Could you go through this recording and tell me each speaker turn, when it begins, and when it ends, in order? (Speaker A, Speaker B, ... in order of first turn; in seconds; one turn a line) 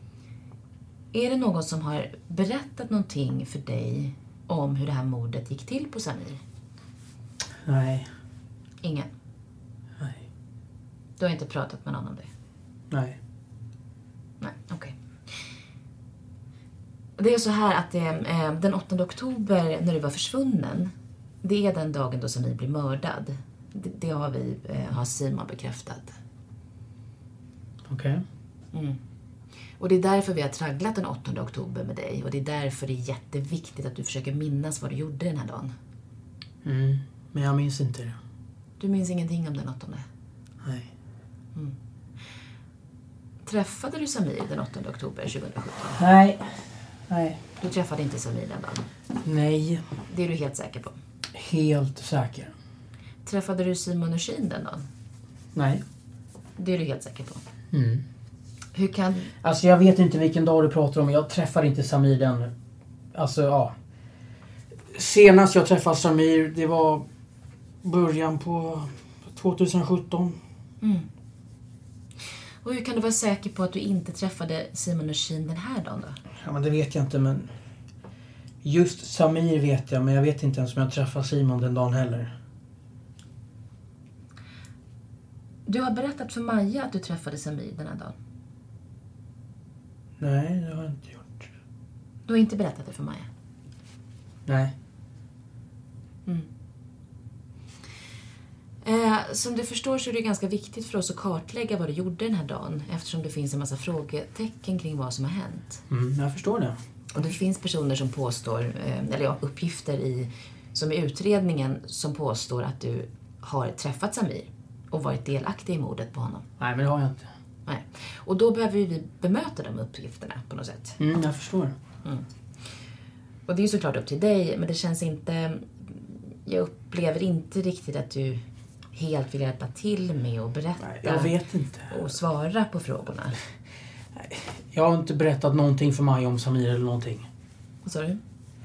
Speaker A: 1.1-6.4
Speaker B: 7.6-8.1
Speaker A: 8.8-9.1
Speaker B: 10.0-10.2
Speaker A: 11.2-12.3
Speaker B: 12.9-13.2
Speaker A: 14.4-14.9
Speaker A: 17.2-20.9
Speaker A: 21.4-26.1
Speaker B: 27.9-28.2
Speaker A: 28.7-29.0
Speaker A: 29.8-35.7
Speaker B: 36.6-38.2
Speaker A: 38.8-40.0
Speaker B: 40.6-40.9
Speaker A: 43.4-46.0
Speaker B: 46.0-46.6
Speaker B: 47.1-47.4
Speaker A: 47.6-48.9
Speaker B: 49.2-49.8
Speaker A: 50.1-51.0
Speaker B: 51.3-52.5
Speaker A: 53.2-54.9
Speaker B: 55.5-55.8
Speaker A: 56.6-57.4
Speaker B: 57.7-58.0
Speaker A: 58.7-59.3
Speaker B: 59.4-62.5
Speaker B: 63.1-63.7
Speaker B: 64.9-67.0
Speaker B: 67.8-70.4
Speaker A: 70.8-71.1
Speaker A: 72.6-76.2
Speaker B: 76.4-77.5
Speaker B: 78.6-82.3
Speaker A: 85.7-88.2
Speaker B: 90.2-91.5
Speaker A: 92.2-93.3
Speaker B: 94.5-94.7
Speaker A: 98.8-105.8
Speaker B: 105.9-106.8
Speaker A: 107.1-116.5
Speaker B: 116.6-117.3
Speaker A: 117.7-121.0
Speaker B: 121.0-121.8
Speaker A: 123.5-131.3
Speaker B: 130.8-132.0
Speaker A: 131.9-133.3
Speaker B: 134.2-137.3
Speaker A: 137.8-138.2